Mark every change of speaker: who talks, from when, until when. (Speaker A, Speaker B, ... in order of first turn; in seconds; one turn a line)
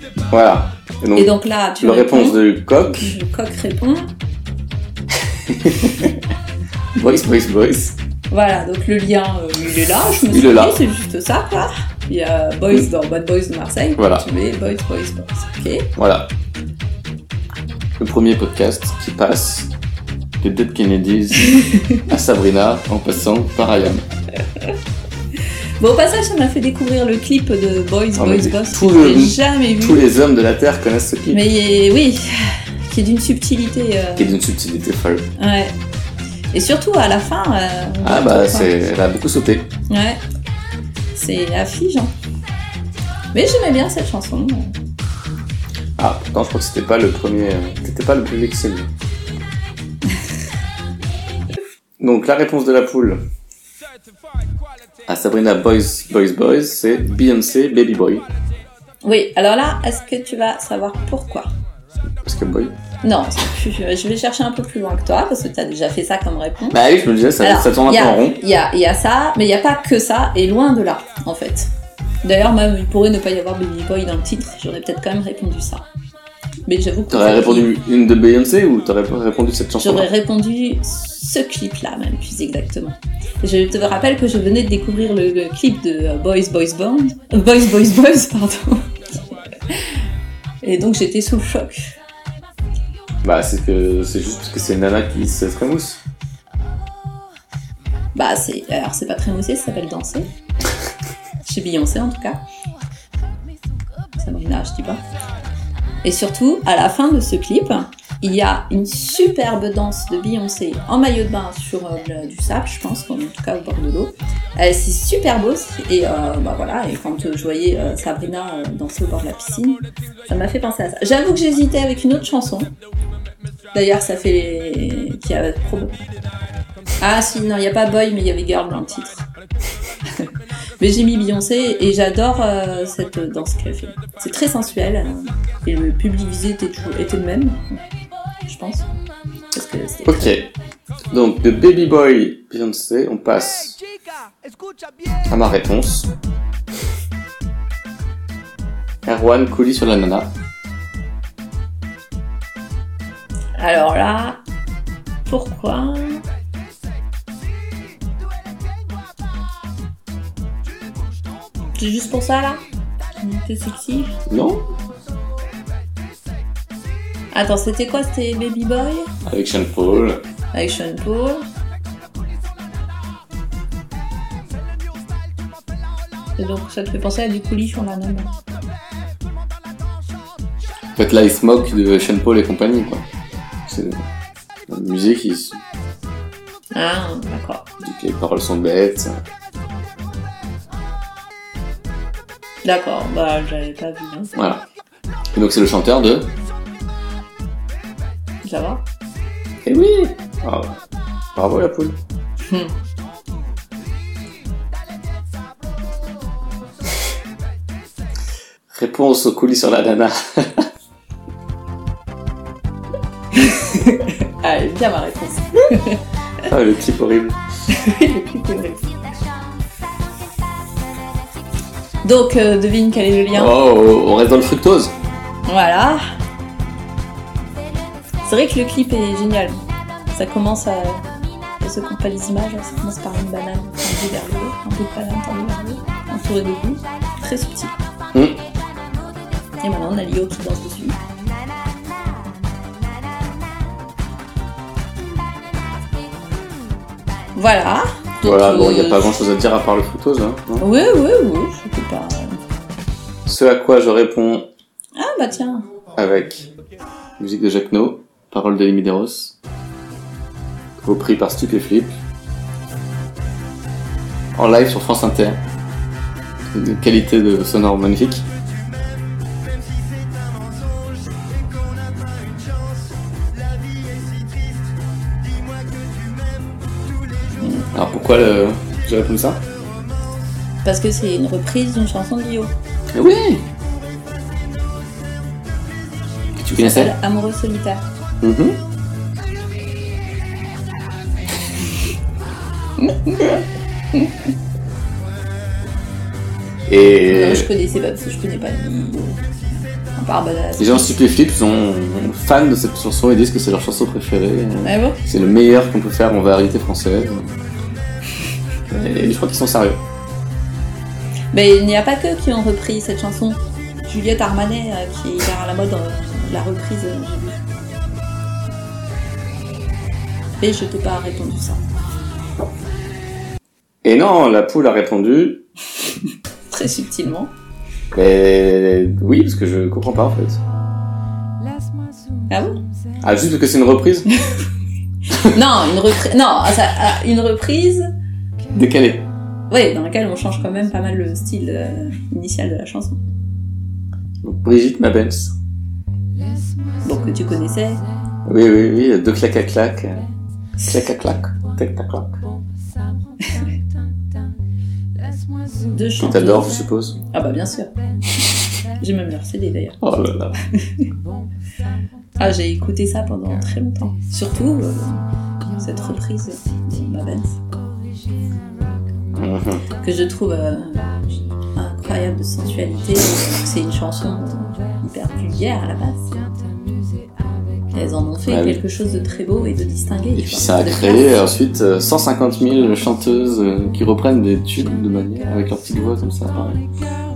Speaker A: 0.3-3.1
Speaker B: 1.1-4.1
Speaker A: 5.3-6.2
Speaker A: 6.9-8.0
Speaker B: 8.3-15.9
Speaker A: 10.2-10.8
Speaker A: 13.9-14.2
Speaker A: 15.9-16.3
Speaker A: 18.0-19.7
Speaker A: 20.4-24.0
Speaker B: 21.5-22.0
Speaker B: 25.8-30.1
Speaker A: 28.1-31.4
Speaker B: 31.3-34.3
Speaker A: 34.2-35.3
Speaker B: 35.4-35.7
Speaker B: 36.5-38.7
Speaker A: 38.0-39.7
Speaker B: 39.9-40.2
Speaker B: 41.1-42.1
Speaker B: 43.3-44.7
Speaker A: 46.0-48.9
Speaker A: 52.0-53.2
Speaker A: 55.1-58.3
Speaker B: 59.0-61.5
Speaker A: 62.2-62.7
Speaker B: 63.0-66.8
Speaker A: 66.7-68.4
Speaker B: 67.4-71.7
Speaker B: 72.2-75.8
Speaker B: 76.7-77.7
Speaker A: 77.1-80.1
Speaker B: 79.8-88.9
Speaker B: 90.6-91.9
Speaker A: 93.2-96.0
Speaker B: 98.1-100.3
Speaker B: 101.4-102.4
Speaker B: 104.2-105.0
Speaker B: 106.0-122.7
Speaker B: 123.7-125.9
Speaker B: 127.0-129.2
Speaker B: 130.1-137.8
Speaker B: 138.4-138.8
Speaker B: 139.5-140.4
Speaker A: 140.1-140.5
Speaker A: 141.1-143.8
Speaker A: 145.3-146.1
Speaker A: 149.0-150.3
Speaker B: 153.6-154.4
Speaker B: 155.2-156.2
Speaker B: 161.8-162.6
Speaker B: 163.2-164.2
Speaker A: 164.3-164.7
Speaker B: 167.3-169.1
Speaker A: 169.2-170.2
Speaker B: 170.5-171.4
Speaker B: 176.4-178.3
Speaker A: 180.9-183.0
Speaker A: 183.7-184.1
Speaker A: 184.7-185.6
Speaker B: 186.7-187.7
Speaker A: 187.8-189.2
Speaker B: 192.6-194.4
Speaker A: 194.3-194.6
Speaker A: 195.3-196.3
Speaker B: 198.4-198.8
Speaker A: 199.6-200.8
Speaker A: 201.3-202.0
Speaker B: 202.4-202.7
Speaker A: 208.7-210.7
Speaker B: 213.3-216.0
Speaker A: 216.4-217.4
Speaker B: 217.7-218.9
Speaker B: 222.0-223.6
Speaker A: 223.3-224.9
Speaker B: 225.4-226.0
Speaker B: 228.2-229.6
Speaker B: 230.1-231.1
Speaker B: 231.6-237.7
Speaker A: 238.1-238.4
Speaker B: 239.6-241.0
Speaker B: 247.3-249.2
Speaker A: 248.2-250.7
Speaker B: 250.6-252.4
Speaker A: 253.2-254.5
Speaker B: 255.0-255.7
Speaker A: 255.9-256.5
Speaker A: 257.2-259.3
Speaker A: 260.8-262.0
Speaker A: 264.3-265.4
Speaker A: 266.5-268.2
Speaker A: 277.7-279.4
Speaker B: 280.6-282.5
Speaker A: 282.9-283.4
Speaker A: 286.4-286.9
Speaker B: 286.5-287.8
Speaker A: 288.2-288.6
Speaker B: 292.8-293.3
Speaker A: 296.7-297.5
Speaker B: 297.1-300.9
Speaker A: 300.6-307.3
Speaker B: 304.6-305.0
Speaker A: 308.7-309.8
Speaker B: 311.3-317.4
Speaker B: 320.4-321.6
Speaker A: 323.8-325.4
Speaker B: 326.5-327.3
Speaker A: 327.9-330.4
Speaker B: 332.3-332.6
Speaker A: 333.0-334.1
Speaker B: 335.1-337.9
Speaker A: 338.5-339.1
Speaker B: 339.5-343.0
Speaker A: 344.2-345.3
Speaker B: 346.8-347.8
Speaker A: 348.2-350.1
Speaker A: 350.6-352.2
Speaker B: 355.7-356.6
Speaker A: 356.0-357.0
Speaker B: 357.1-357.7
Speaker B: 358.8-359.8
Speaker A: 359.8-360.4
Speaker B: 360.5-360.9
Speaker B: 362.2-367.4
Speaker A: 369.1-369.6
Speaker B: 369.8-376.3
Speaker B: 377.7-381.2
Speaker A: 378.3-378.6
Speaker A: 380.1-386.6